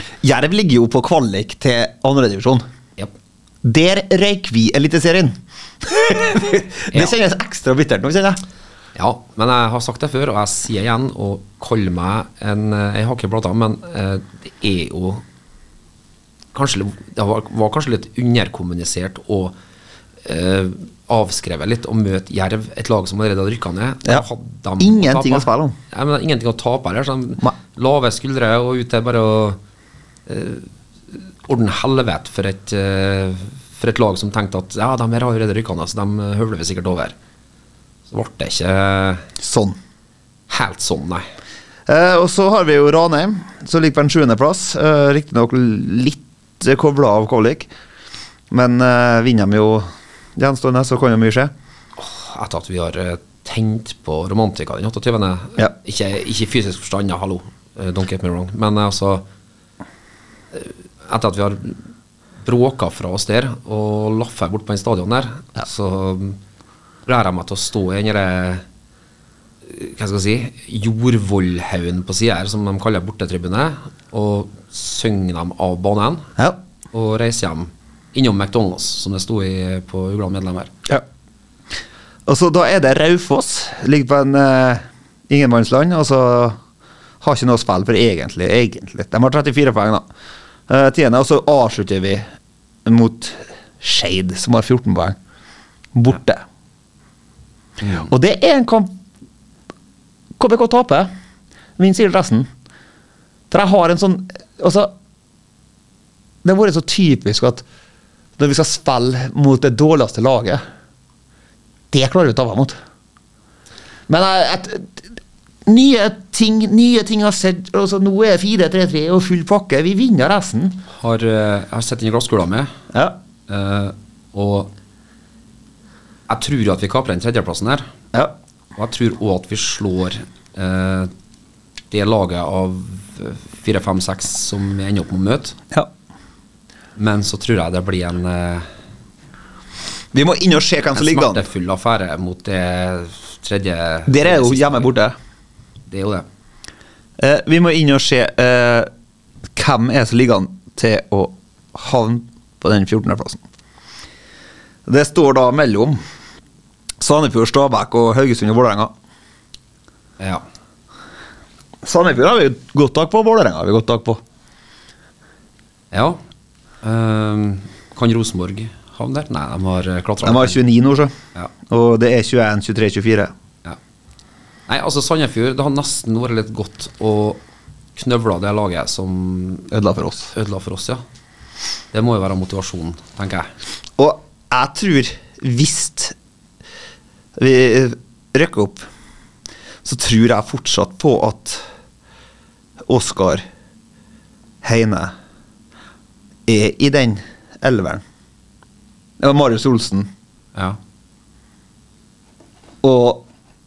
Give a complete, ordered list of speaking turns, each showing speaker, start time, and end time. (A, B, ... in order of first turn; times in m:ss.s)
0:00.2-0:02.6 A
0:03.6-0:08.4 A
0:08.9-0:15.2 B
0:16.5-0:19.6 B
0:20.2-0:29.6 B
0:24.8-0:25.8 A
0:30.3-0:37.1 B
0:38.1-0:39.3 B
0:39.4-0:39.8 A
0:40.5-0:41.2 B
0:41.9-0:47.7 A
0:48.5-0:51.5 A
0:52.0-0:59.2 B
1:00.5-1:01.8 B
1:02.4-1:06.4 B
1:07.1-1:08.6 B
1:09.6-1:16.3 B
1:16.9-1:20.7 B
1:22.3-1:26.6 A
1:27.2-1:30.0 A
1:30.7-1:32.2 A
1:32.8-1:35.2 A
1:35.9-1:36.4 A
1:37.8-1:38.1 B
1:38.0-1:39.0 A
1:40.4-1:41.1 A
1:41.8-1:42.5 A
1:43.5-1:44.9 A
1:46.4-1:47.6 A
1:48.4-1:50.6 A
1:51.9-1:52.8 A
1:54.1-1:55.0 A
1:55.6-2:00.8 A
2:00.9-2:02.7 B
2:03.5-2:04.7 B
2:06.3-2:07.9 B
2:08.8-2:11.1 B
2:11.9-2:15.6 B
2:17.0-2:18.7 B
2:20.1-2:21.4 A
2:20.9-2:24.9 B
2:24.1-2:25.1 A
2:25.9-2:26.3 B
2:27.2-2:28.9 A
2:29.6-2:33.4 A
2:34.9-2:36.0 A
2:37.0-2:38.9 A
2:40.2-2:40.4 B
2:41.8-2:44.2 A
2:45.9-2:46.2 B
2:46.8-2:50.6 B
2:50.2-2:51.1 A
2:51.7-2:53.3 A
2:54.7-2:57.4 B
2:58.0-2:59.7 B
2:59.7-3:00.3 A
3:00.3-3:01.0 B
3:01.9-3:03.5 B
3:04.0-3:06.1 A
3:07.4-3:08.9 A
3:09.8-3:11.6 A
3:12.9-3:13.4 A
3:14.6-3:15.1 A
3:16.4-3:18.0 A
3:19.2-3:20.1 A
3:22.8-3:23.2 A